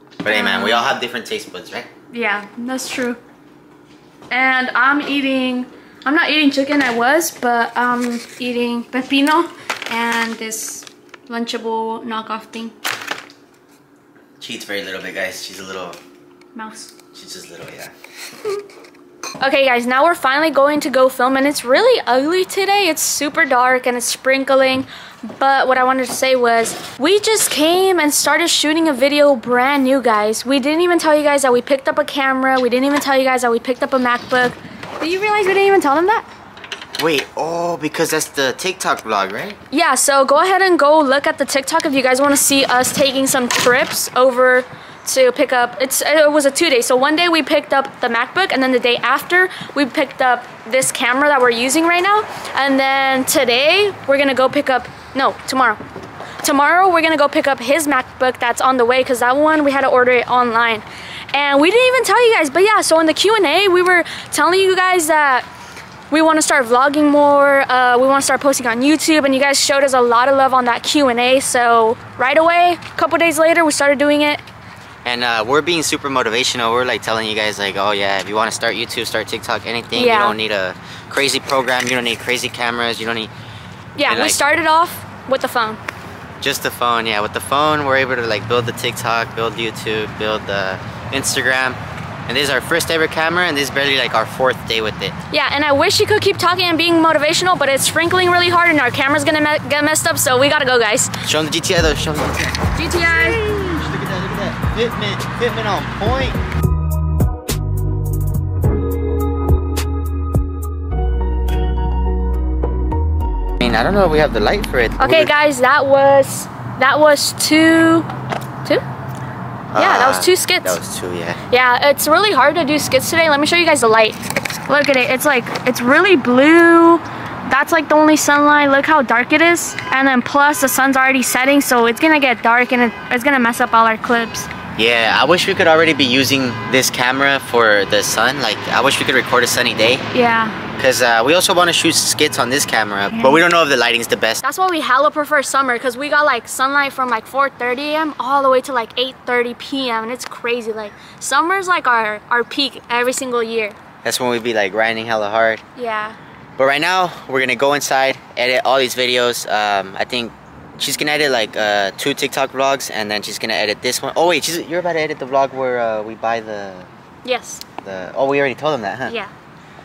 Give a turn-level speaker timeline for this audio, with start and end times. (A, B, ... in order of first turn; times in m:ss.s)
0:00.2-0:01.9 A
0:00.2-0:00.9 B
0:02.1-0:03.2 B
0:04.3-0:12.7 B
0:14.4-0:16.0 A
0:16.5-0:16.9 B
0:17.1-0:17.9 A
0:19.4-0:36.2 B
0:37.0-0:39.6 A
0:39.7-0:55.8 B
0:56.4-1:05.4 B
1:06.1-1:14.4 B
1:15.0-1:23.3 A
1:19.9-1:20.4 B
1:24.0-1:25.8 B
1:24.0-1:24.4 A
1:26.4-1:35.1 A
1:35.3-1:41.1 B
1:41.2-1:46.4 A
1:42.7-1:43.5 B
1:53.6-1:55.3 A
1:55.0-1:58.1 B
1:59.7-2:01.4 A
1:59.7-2:00.8 B
2:01.5-2:14.5 B
2:14.8-2:20.0 A
2:20.1-2:20.6 B
2:20.8-2:24.4 A
2:23.1-2:23.4 B
2:24.4-2:33.8 B
2:34.0-2:35.6 A
2:35.7-2:36.2 B
2:36.6-2:46.9 A
2:47.2-2:47.6 B
2:47.8-2:49.2 A
2:49.1-2:49.3 B